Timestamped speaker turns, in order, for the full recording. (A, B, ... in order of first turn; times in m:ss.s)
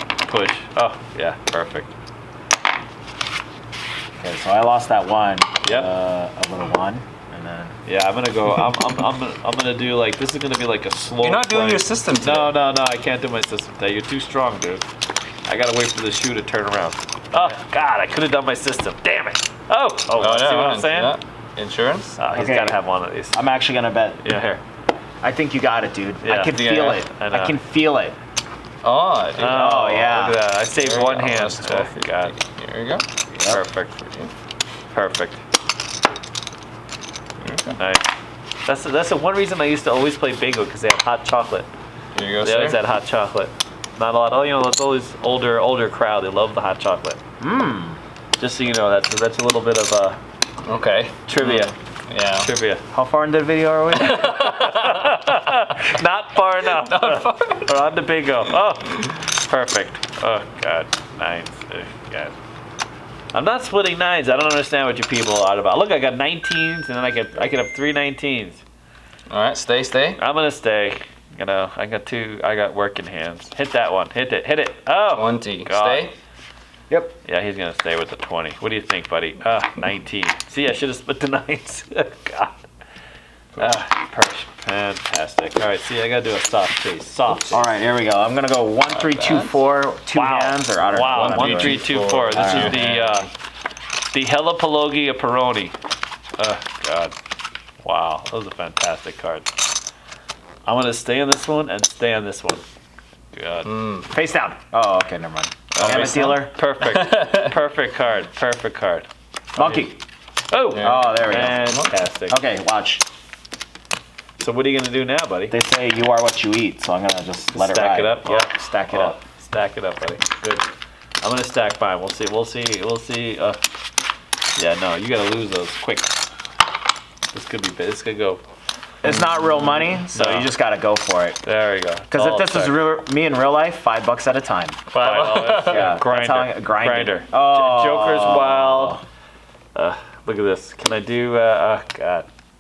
0:00.2-0:01.9 A
0:04.2-0:07.8 B
0:05.6-0:05.9 A
0:07.8-0:14.9 A
0:11.2-0:12.5 C
0:15.5-0:21.2 A
0:20.2-0:22.2 C
0:22.2-0:23.4 A
0:22.3-0:22.8 B
0:23.3-0:24.2 B
0:24.2-0:24.6 A
0:25.2-0:28.2 B
0:26.2-0:27.6 A
0:28.8-0:29.8 C
0:29.4-0:32.3 A
0:29.4-0:30.4 B
0:30.6-0:33.1 C
0:33.3-0:33.6 B
0:33.5-0:34.2 A
0:34.9-0:35.4 A
0:37.4-0:37.8 C
0:37.8-0:38.1 A
0:38.7-0:41.7 A
0:42.2-0:42.8 C
0:42.4-0:47.2 A
0:47.4-0:48.0 B
0:48.4-0:50.2 A
0:50.6-0:52.5 C
0:51.3-0:51.7 A
0:52.4-0:52.8 A
0:52.9-0:54.3 B
0:54.0-0:55.3 C
0:54.0-1:02.4 A
0:56.6-0:57.7 C
1:03.3-1:08.6 A
1:09.3-1:10.2 C
1:10.2-1:16.1 A
1:15.1-1:16.1 C
1:16.9-1:17.2 B
1:17.2-1:22.7 A
1:23.5-1:23.8 C
1:23.6-1:27.6 A
1:27.5-1:32.8 B
1:28.9-1:29.6 C
1:30.1-1:33.3 A
1:31.0-1:33.3 C
1:34.1-1:35.8 A
1:36.4-1:37.2 A
1:37.8-1:39.5 A
1:40.6-1:42.6 A
1:43.3-1:43.7 A
1:43.6-1:44.1 C
1:44.1-1:46.6 B
1:45.7-1:49.8 A
1:45.8-1:47.6 C
1:49.6-1:50.0 B
1:50.5-1:52.4 A
1:50.7-1:51.9 C
1:50.8-1:51.8 B
1:52.3-1:53.0 B
1:54.4-1:55.6 A
1:55.5-1:59.2 B
1:57.5-2:00.7 A
2:01.2-2:03.6 A
2:04.6-2:06.2 A
2:07.3-2:08.4 A
2:09.0-2:11.4 B
2:09.1-2:09.6 C
2:10.1-2:10.5 A
2:11.4-2:12.8 A
2:12.1-2:14.8 B
2:14.9-2:16.0 C
2:15.0-2:19.0 A
2:15.5-2:19.0 B
2:19.8-2:22.3 A